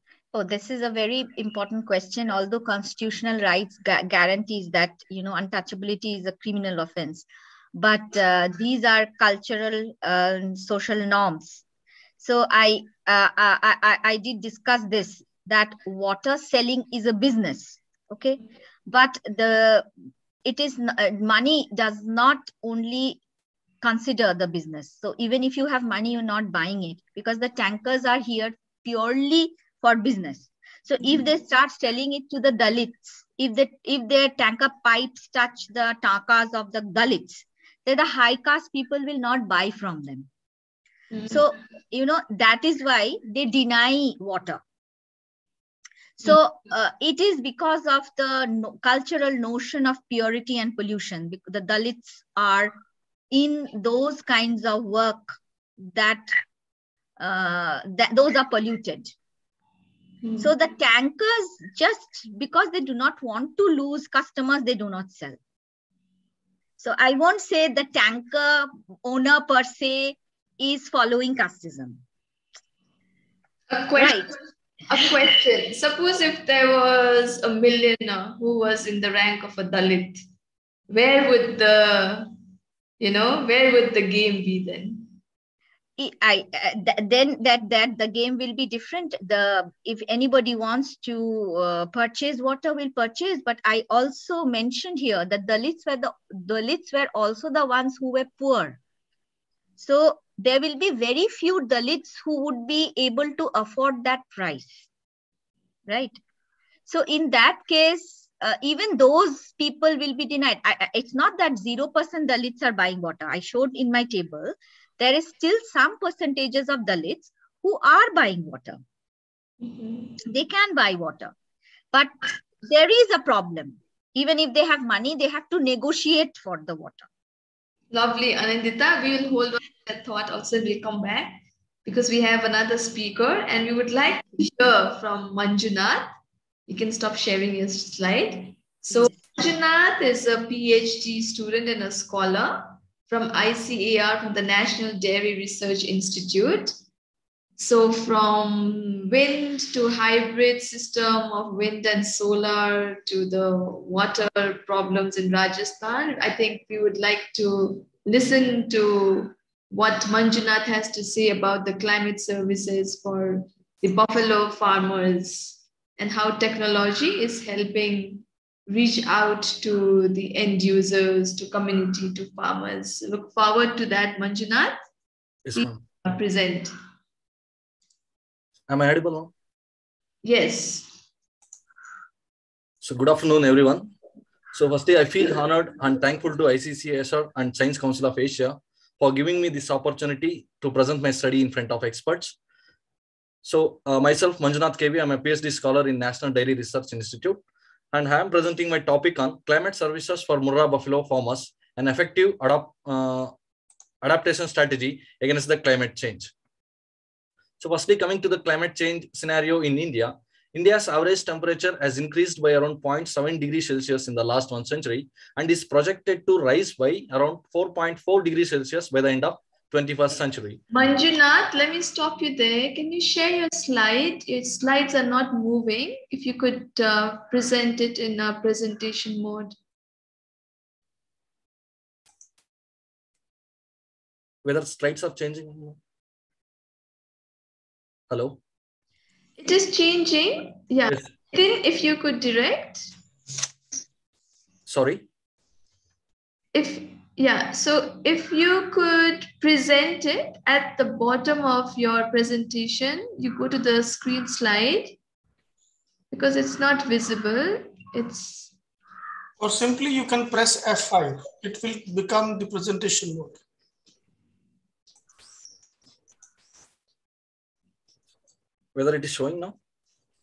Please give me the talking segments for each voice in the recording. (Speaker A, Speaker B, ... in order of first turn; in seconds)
Speaker A: 0.3-11.6, 12.2-19.9, 20.4-23.2, 23.8-40.3, 41.3-44.6, 46.2-52.7, 53.3-56.4, 57.2-59.1, 60.4-65.4, 66.8-72.0, 74.0-74.3, 86.0-98.8, 99.8-104.8, 105.9-106.2, 106.9-118.8, 120.2-121.3, 121.9-127.1
Speaker B: 41.1-41.4, 60.2-60.5, 73.7-74.4, 74.9-80.2, 80.9-82.3, 83.0-85.1, 119.6-120.2, 127.9-136.1, 136.7-146.7, 147.6-174.8, 175.5-176.7, 180.2-181.0, 220.7-229.5, 239.4-242.9, 246.5-255.0, 256.1-258.5
Speaker C: 175.4-175.8, 178.7-179.3, 182.8-183.9, 184.5-192.3, 193.4-197.4, 197.9-203.3, 204.0-206.3, 207.6-220.6, 234.4-235.8, 238.1-238.4, 244.7-245.0, 268.7-269.6
Speaker D: 259.4-263.4